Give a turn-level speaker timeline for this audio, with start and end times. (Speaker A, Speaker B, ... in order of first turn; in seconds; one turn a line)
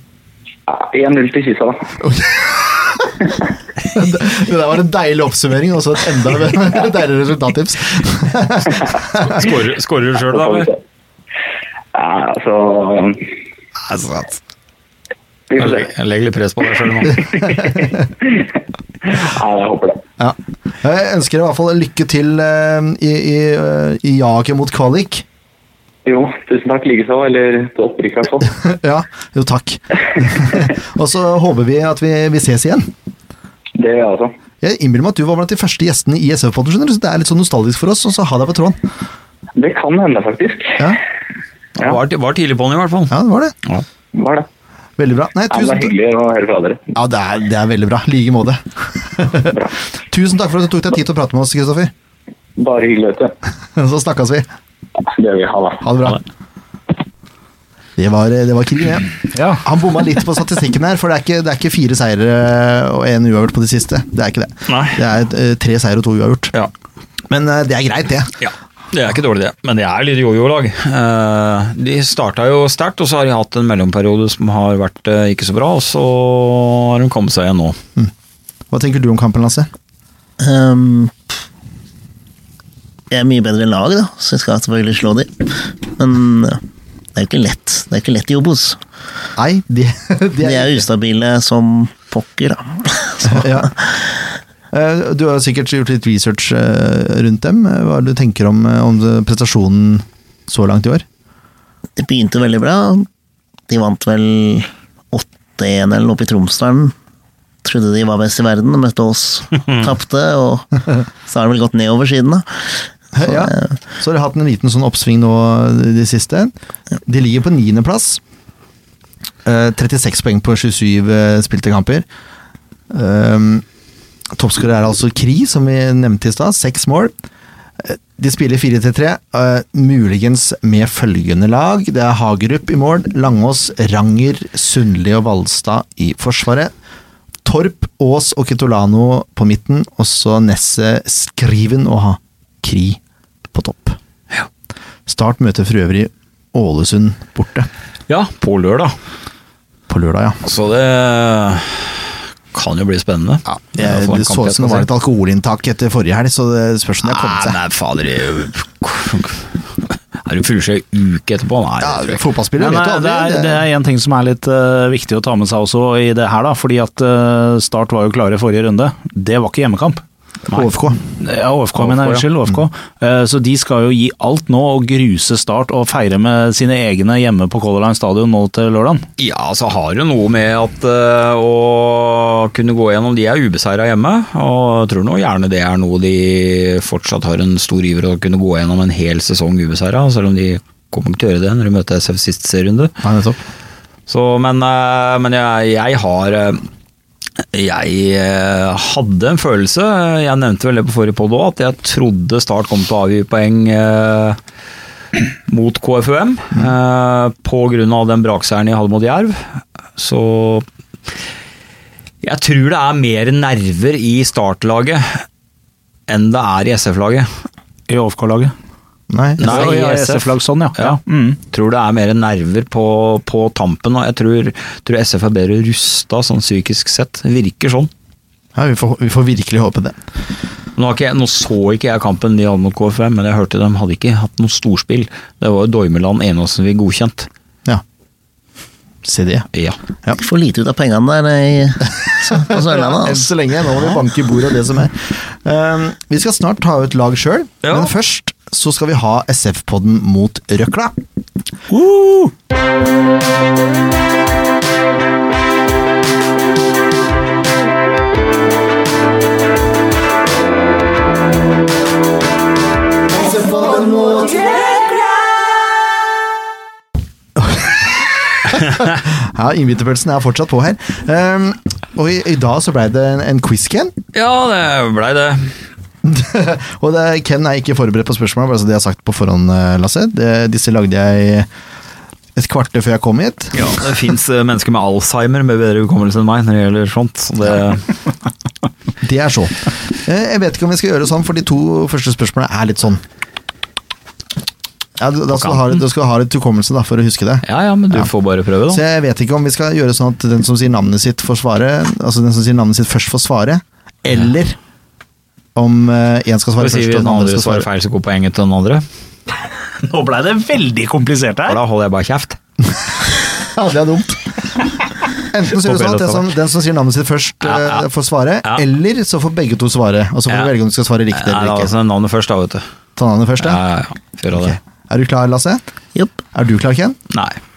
Speaker A: 0.7-1.9
Speaker B: 2.0-3.2
Speaker B: 3.9-9.4
Speaker C: 9.2-10.7
Speaker A: 10.3-10.8
Speaker A: 11.9-13.3
Speaker C: 13.9-14.4
Speaker A: 15.5-15.9
Speaker C: 15.6-17.3
Speaker A: 17.0-20.0
Speaker B: 20.2-25.2
Speaker A: 26.1-28.5
Speaker B: 28.6-32.9
Speaker A: 33.8-34.3
Speaker B: 34.6-38.8
Speaker A: 39.6-41.0
Speaker C: 41.8-43.9
Speaker B: 43.1-43.5
Speaker A: 44.1-44.5
Speaker B: 45.0-45.9
Speaker A: 45.5-46.8
Speaker B: 47.0-49.6
Speaker B: 50.1-51.9
Speaker A: 52.6-53.3
Speaker B: 53.8-54.5
Speaker A: 55.0-56.0
Speaker B: 55.8-56.2
Speaker B: 58.0-66.5
Speaker D: 59.3-59.6
Speaker C: 64.7-65.0
Speaker B: 67.3-68.3
Speaker C: 68.4-77.8
Speaker B: 78.7-79.7
Speaker E: 80.4-81.2
Speaker E: 83.1-86.6
Speaker E: 87.2-88.8
Speaker B: 89.4-90.8
Speaker E: 90.4-93.6
Speaker B: 93.2-93.8
Speaker B: 94.7-101.0
Speaker E: 102.0-103.1
Speaker E: 103.7-106.9
Speaker E: 107.6-112.5
Speaker B: 113.1-116.5
Speaker E: 113.2-113.7
Speaker B: 117.0-118.2
Speaker B: 119.5-122.1
Speaker B: 122.9-123.6
Speaker B: 124.3-127.1
Speaker B: 127.8-136.7
Speaker B: 137.4-143.0
Speaker B: 143.5-144.0
Speaker B: 145.1-147.7
Speaker C: 148.1-148.9
Speaker B: 149.9-150.4
Speaker C: 150.4-154.9
Speaker B: 153.5-157.6
Speaker C: 157.0-162.2
Speaker B: 161.8-163.6
Speaker D: 162.6-170.0
Speaker B: 170.5-171.0
Speaker D: 171.2-179.1
Speaker C: 171.8-172.3
Speaker C: 179.2-192.9
Speaker B: 193.0-193.4
Speaker C: 194.1-196.6
Speaker C: 197.5-204.4
Speaker C: 205.5-210.7
Speaker C: 212.2-215.2
Speaker C: 216.1-217.3
Speaker D: 217.9-218.5
Speaker B: 219.1-219.5
Speaker C: 219.4-221.0
Speaker D: 219.4-221.4
Speaker C: 221.5-227.9
Speaker B: 228.6-230.0
Speaker C: 230.8-237.3
Speaker B: 239.0-239.5
Speaker E: 240.2-243.3
Speaker B: 242.3-250.9
Speaker C: 247.6-247.9
Speaker C: 251.7-252.3
Speaker B: 263.3-264.4
Speaker B: 267.4-267.8
Speaker B: 268.5-273.9
Speaker C: 274.1-275.6
Speaker B: 276.0-281.5
Speaker B: 282.4-283.8
Speaker C: 283.5-287.9
Speaker B: 289.0-293.0
Speaker B: 295.0-298.1
Speaker C: 295.3-295.8
Speaker C: 297.4-298.8
Speaker B: 298.7-304.6
Speaker B: 305.6-307.7
Speaker C: 306.6-308.9
Speaker D: 309.8-311.6
Speaker C: 311.5-312.4
Speaker B: 313.3-314.3
Speaker B: 315.3-321.7
Speaker C: 315.6-316.3
Speaker C: 317.4-317.8
Speaker C: 321.1-322.6
Speaker B: 323.0-323.6
Speaker C: 323.4-324.6
Speaker B: 324.3-325.6
Speaker B: 326.3-327.0
Speaker C: 327.1-327.4